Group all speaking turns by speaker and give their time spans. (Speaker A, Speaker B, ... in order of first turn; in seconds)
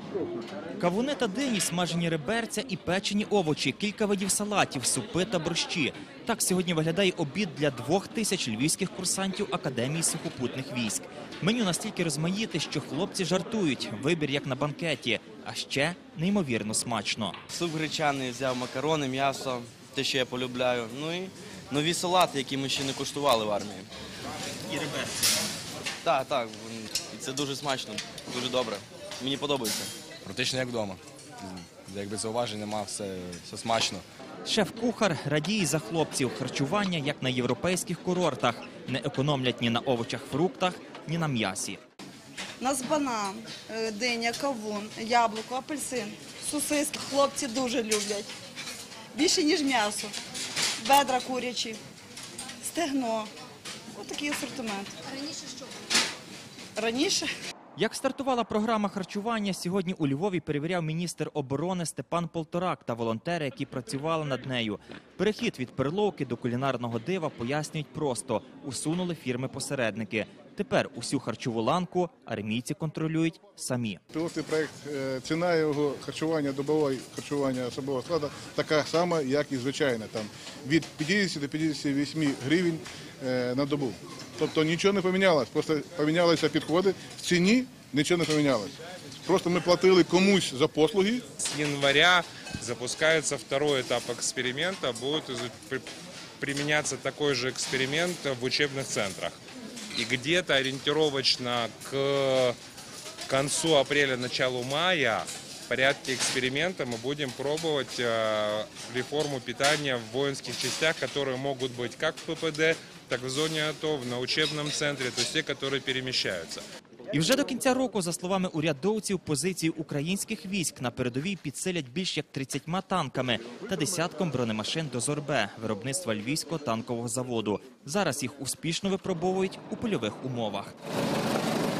Speaker A: 0.8-17.4, 34.4-41.8, 57.8-74.0, 117.1-130.7
Speaker B: 17.5-23.9, 26.0-29.9
Speaker C: 30.2-34.0
Speaker D: 42.6-48.3, 49.1-50.1, 50.8-51.8, 52.6-53.3, 53.9-55.5, 56.8-57.3
Speaker E: 74.1-88.7, 89.2-91.2
Speaker F: 91.4-95.8, 96.4-99.4, 99.9-102.6, 103.3-116.6